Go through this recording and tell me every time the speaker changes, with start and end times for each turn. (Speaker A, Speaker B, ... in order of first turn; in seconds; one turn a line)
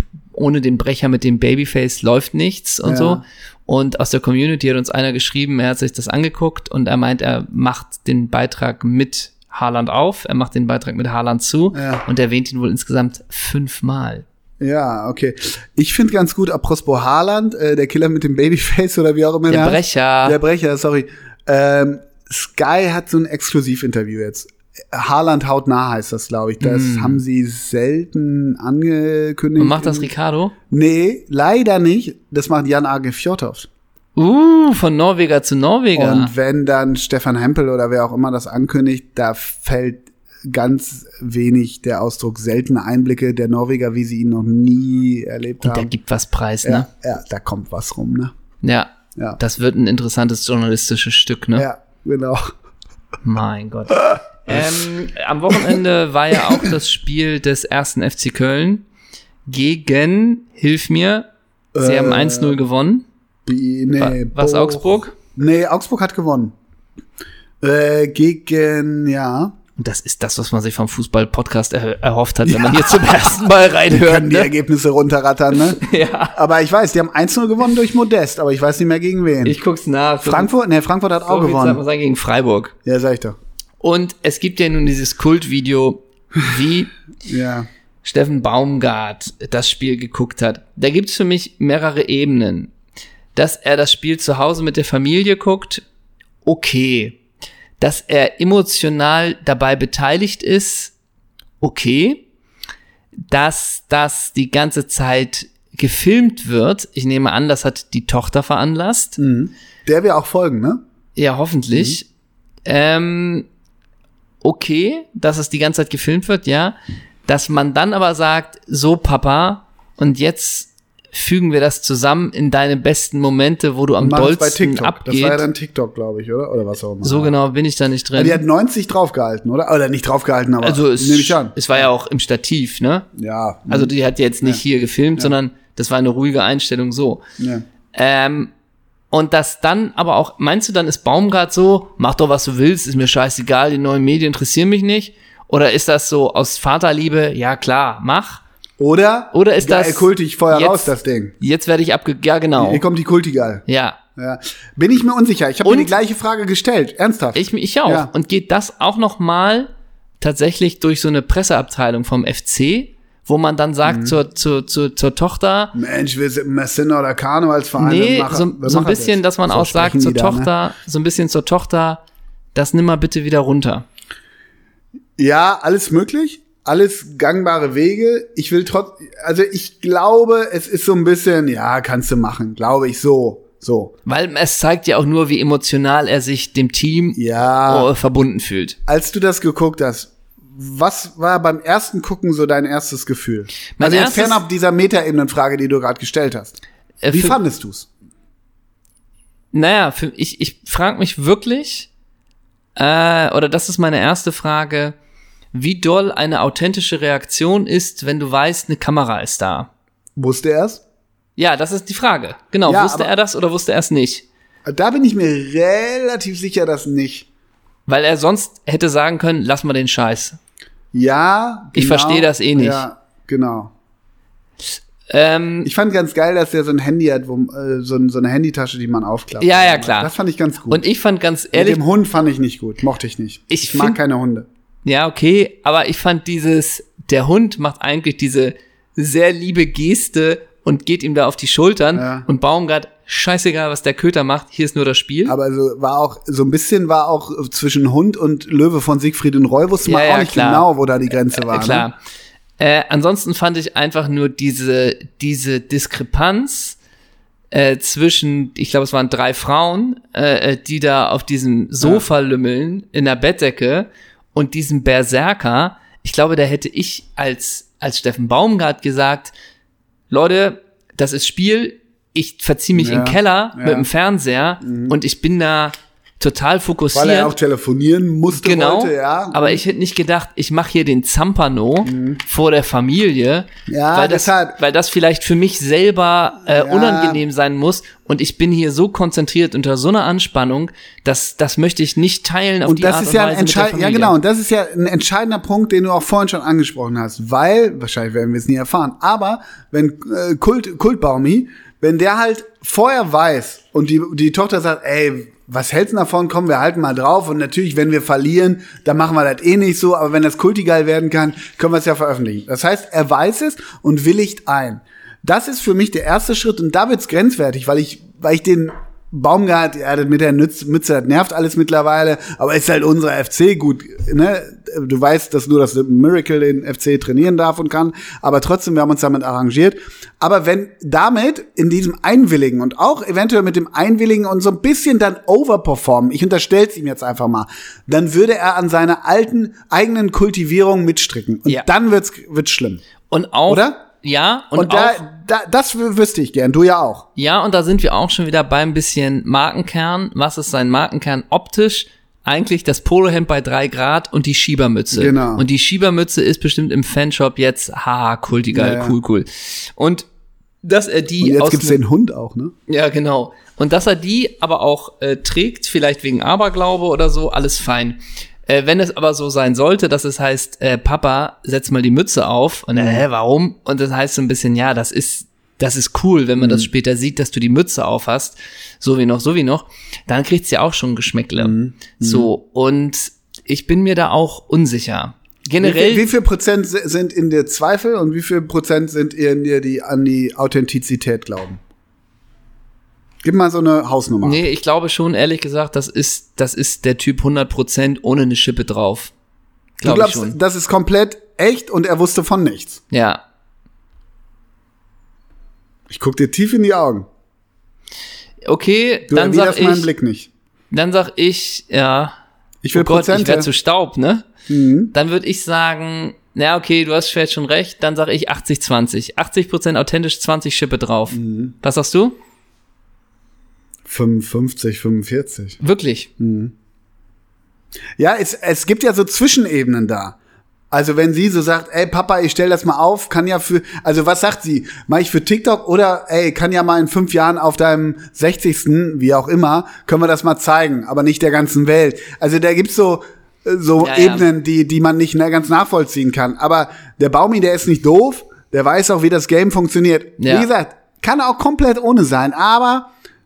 Speaker A: 0.3-14.2
Speaker B: 2.8-3.2
Speaker B: 11.7-12.0
Speaker B: 14.6-30.1
Speaker A: 19.5-20.4
Speaker A: 26.6-27.2
Speaker A: 29.6-30.5
Speaker B: 30.7-33.7
Speaker A: 34.1-36.3
Speaker B: 36.0-45.9
Speaker A: 45.6-46.9
Speaker B: 46.6-48.3
Speaker A: 48.6-51.7
Speaker B: 51.5-52.5
Speaker A: 53.2-58.8
Speaker A: 59.5-61.3
Speaker B: 61.7-62.6
Speaker A: 61.8-63.0
Speaker B: 63.5-66.5
Speaker A: 64.0-65.1
Speaker B: 67.6-69.5
Speaker A: 69.8-74.5
Speaker B: 72.4-73.2
Speaker B: 73.9-75.8
Speaker A: 75.5-76.4
Speaker B: 76.3-79.6
Speaker A: 79.4-80.5
Speaker B: 80.2-81.8
Speaker A: 81.2-82.7
Speaker B: 82.8-83.4
Speaker A: 83.8-86.9
Speaker B: 87.2-87.7
Speaker A: 88.0-92.7
Speaker A: 93.3-95.8
Speaker A: 96.4-97.2
Speaker A: 97.8-100.9
Speaker A: 101.6-102.2
Speaker A: 103.3-109.2
Speaker B: 109.2-110.8
Speaker A: 111.2-112.1
Speaker A: 112.7-113.5
Speaker A: 114.4-116.8
Speaker A: 117.3-125.5
Speaker B: 124.0-127.3
Speaker A: 127.0-128.4
Speaker B: 128.1-131.9
Speaker A: 130.6-133.1
Speaker B: 133.1-134.6
Speaker A: 133.7-137.2
Speaker B: 137.4-137.6
Speaker A: 137.9-138.5
Speaker A: 139.1-148.4
Speaker B: 148.8-151.3
Speaker A: 149.3-152.8
Speaker B: 152.6-153.6
Speaker A: 153.7-154.0
Speaker B: 154.2-158.1
Speaker A: 155.6-155.9
Speaker A: 157.3-165.8
Speaker B: 163.8-164.2
Speaker B: 165.7-170.5
Speaker A: 167.8-172.0
Speaker A: 172.5-173.8
Speaker B: 175.2-183.9
Speaker A: 184.1-188.8
Speaker B: 187.2-187.9
Speaker B: 188.9-196.6
Speaker A: 193.8-194.4
Speaker A: 197.0-197.4
Speaker B: 197.1-197.9
Speaker A: 199.5-201.9
Speaker A: 202.8-204.9
Speaker A: 205.5-209.7
Speaker B: 210.2-210.8
Speaker A: 211.4-214.2
Speaker B: 212.7-213.1
Speaker B: 214.6-217.3
Speaker A: 217.9-220.4
Speaker B: 220.9-223.7
Speaker A: 221.7-222.9
Speaker A: 225.1-225.7
Speaker B: 225.6-230.8
Speaker A: 229.4-230.1
Speaker A: 230.7-231.8
Speaker B: 231.5-234.5
Speaker A: 233.5-234.0
Speaker A: 234.8-245.3
Speaker B: 241.9-242.3
Speaker B: 245.3-251.9
Speaker A: 249.8-250.7
Speaker A: 251.3-251.9
Speaker A: 252.6-256.8
Speaker A: 257.5-269.3
Speaker B: 261.8-262.1
Speaker A: 270.1-277.3
Speaker B: 272.8-273.9
Speaker B: 274.6-275.0
Speaker B: 276.9-279.6
Speaker A: 278.3-294.1
Speaker B: 281.9-282.2
Speaker B: 283.7-284.6
Speaker B: 286.4-287.2
Speaker B: 292.6-342.8
Speaker A: 343.1-345.0
Speaker B: 343.5-343.8
Speaker B: 344.5-347.1
Speaker A: 347.1-360.1
Speaker B: 354.9-355.4
Speaker B: 358.5-358.9
Speaker A: 360.6-361.8
Speaker B: 361.2-362.5
Speaker A: 362.7-386.1
Speaker B: 372.8-373.0
Speaker B: 376.4-376.7
Speaker B: 381.4-382.3
Speaker B: 385.6-391.6
Speaker B: 393.2-394.4
Speaker A: 394.2-399.1
Speaker A: 399.8-400.4
Speaker B: 399.8-402.8
Speaker A: 402.9-403.2
Speaker B: 405.9-407.1
Speaker A: 408.4-409.9
Speaker B: 409.1-410.3
Speaker A: 410.7-412.1
Speaker B: 412.6-413.5
Speaker A: 412.7-414.3
Speaker B: 414.5-414.9
Speaker A: 414.9-422.2
Speaker B: 421.1-421.5
Speaker B: 423.8-425.6
Speaker A: 425.6-426.1
Speaker B: 426.2-426.5
Speaker B: 428.0-430.1
Speaker B: 430.7-452.9
Speaker A: 443.8-444.3
Speaker A: 450.2-450.5